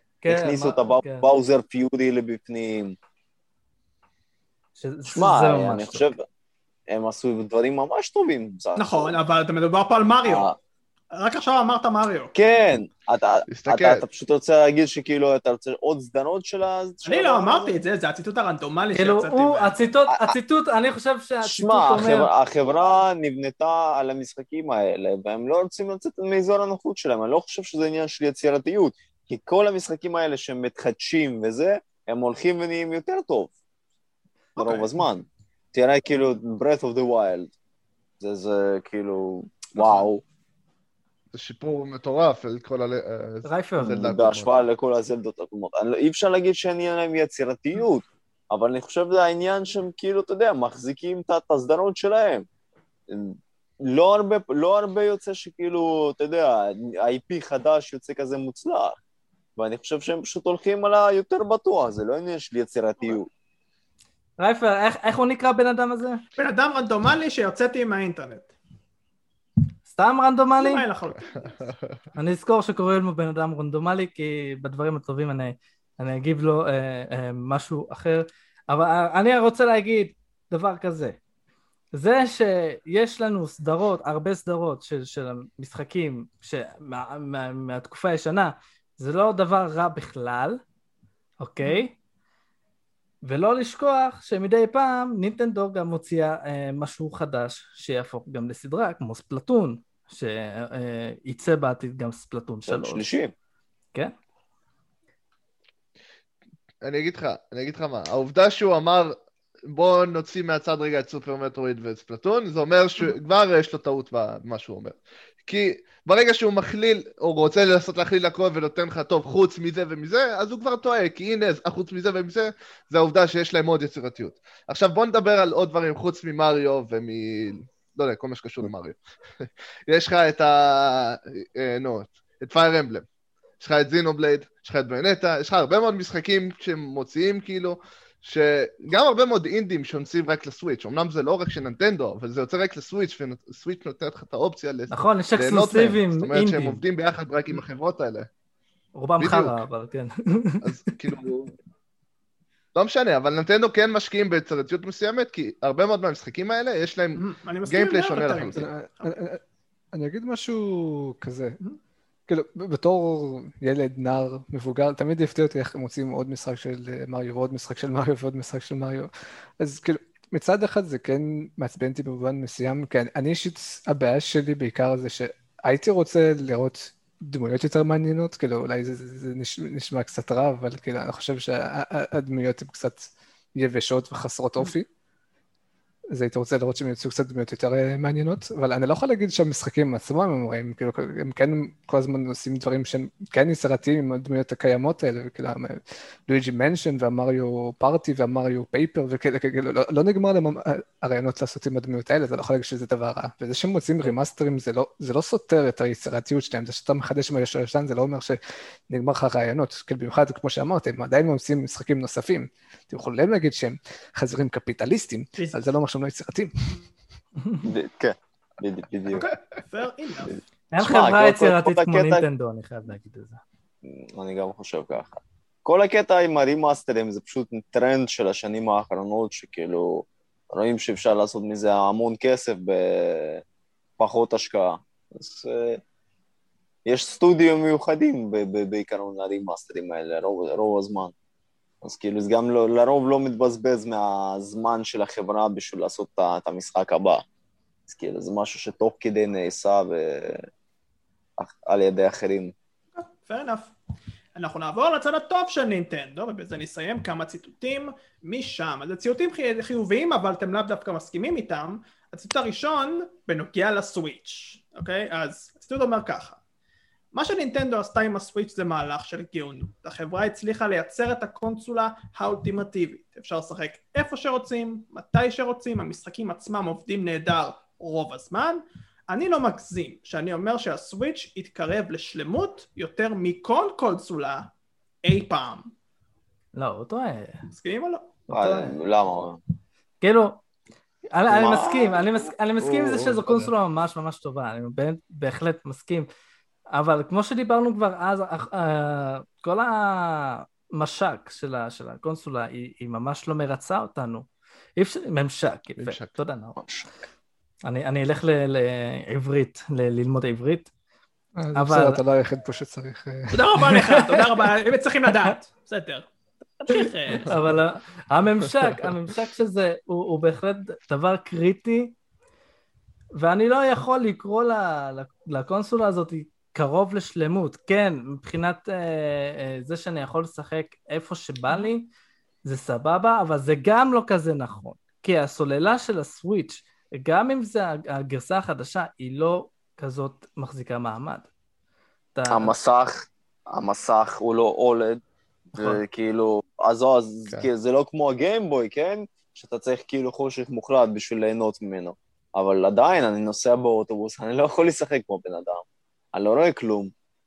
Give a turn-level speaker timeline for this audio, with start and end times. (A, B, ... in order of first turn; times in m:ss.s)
0:00.2-0:01.3 A
0:00.3-0:03.0 B
0:04.8-0:06.1 A
0:05.1-0:06.2 B
0:06.9-0:09.1 B
0:08.8-0:10.5 C
0:10.2-0:10.5 B
0:11.1-0:12.3 C
0:12.3-0:17.8 B
0:13.5-0:14.0 D
0:17.0-0:19.8 C
0:18.9-0:22.3 A
0:21.4-0:33.5 B
0:34.6-0:37.5 B
0:34.6-0:34.9 C
0:38.2-0:40.2 B
0:39.8-0:40.1 D
0:41.3-0:44.7 D
0:43.4-0:44.0 A
0:43.8-0:52.4 B
0:53.1-0:59.0 B
0:59.6-1:03.3 B
1:04.4-1:06.2 A
1:06.4-1:08.5 C
1:09.9-1:10.8 A
1:10.6-1:11.6 C
1:11.4-1:12.0 D
1:12.2-1:21.2 A
1:21.9-1:30.6 A
1:31.4-1:31.9 A
1:33.2-1:43.0 A
1:42.7-1:43.3 B
1:46.8-1:49.2 D
1:49.7-2:09.0 D
2:09.9-2:13.0 D
2:13.6-2:28.3 D
2:24.9-2:26.8 A
2:28.9-2:30.7 A
2:29.2-2:29.6 D
2:30.6-2:31.5 D
2:32.7-2:38.7 D
2:37.2-2:39.2 C
2:38.6-2:39.4 E
2:39.9-2:41.6 E
2:42.3-3:04.9 E
3:06.1-3:28.4 E
3:28.9-3:36.8 E
3:35.4-3:35.7 C
3:37.4-3:37.7 A
3:37.6-3:39.3 B
3:39.1-3:40.4 C
3:40.3-3:42.2 B
3:40.7-3:43.4 A
3:43.8-3:53.4 B
3:54.0-3:55.8 B
3:56.8-4:01.1 B
4:01.8-4:07.2 B
4:07.9-4:10.5 B
4:11.4-4:12.5 B
4:13.0-4:13.7 C
4:14.3-4:26.4 C
4:27.1-4:44.5 C
4:45.0-4:45.7 C
4:46.5-4:47.4 A
4:47.5-4:48.1 C
4:48.3-4:48.8 A
4:48.3-4:49.4 B
4:50.0-4:50.4 A
4:51.1-4:56.1 A
4:51.3-4:52.0 B
4:52.6-4:53.5 D
4:56.7-5:06.6 A
5:05.8-5:06.1 D
5:06.6-5:06.8 B
5:07.6-5:10.7 A
5:11.4-5:13.4 E
5:11.5-5:12.0 A
5:13.3-5:16.1 C
5:13.6-5:14.2 A
5:16.6-5:17.4 C
5:17.0-5:21.9 A
5:23.2-5:31.9 A
5:32.4-5:41.3 A
5:42.1-5:42.5 A
5:42.3-5:45.0 B
5:45.5-5:56.9 B
5:45.6-5:45.8 A